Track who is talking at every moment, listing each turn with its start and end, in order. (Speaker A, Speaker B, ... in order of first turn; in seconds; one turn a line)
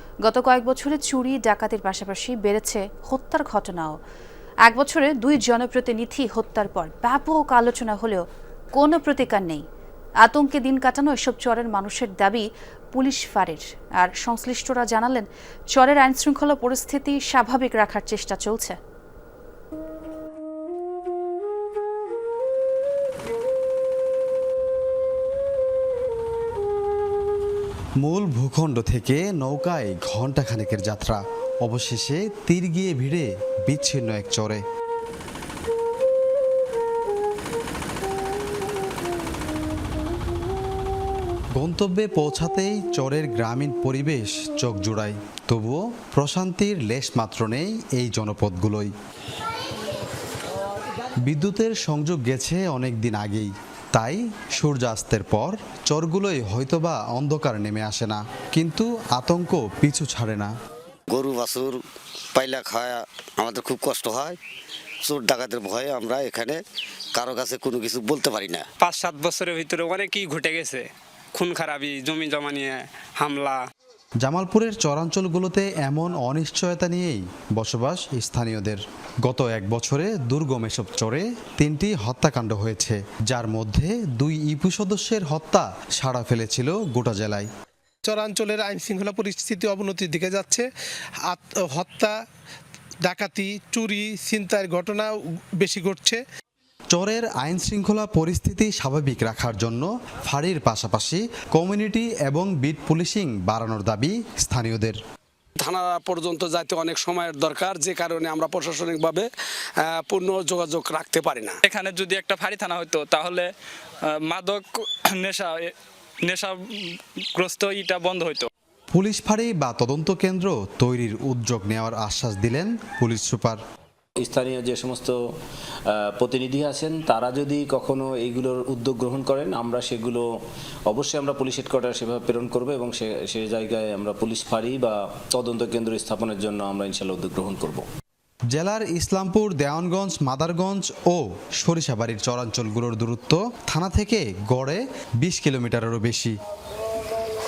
Speaker A: 0.2-4.0
Speaker A: 4.7-9.6
Speaker A: 10.2-18.8
Speaker B: 28.0-34.6
Speaker B: 41.5-48.9
Speaker B: 51.2-60.5
Speaker C: 61.1-61.8
Speaker C: 62.3-64.4
Speaker C: 65.0-66.6
Speaker C: 67.1-68.7
Speaker D: 68.8-73.7
Speaker B: 74.2-87.5
Speaker E: 88.0-90.7
Speaker E: 91.3-92.1
Speaker E: 93.0-96.2
Speaker B: 96.9-105.0
Speaker F: 105.6-109.3
Speaker F: 109.8-111.6
Speaker D: 111.6-113.5
Speaker D: 114.0-118.5
Speaker B: 118.9-123.6
Speaker G: 124.2-125.2
Speaker G: 125.9-130.2
Speaker G: 130.9-137.8
Speaker B: 138.5-146.3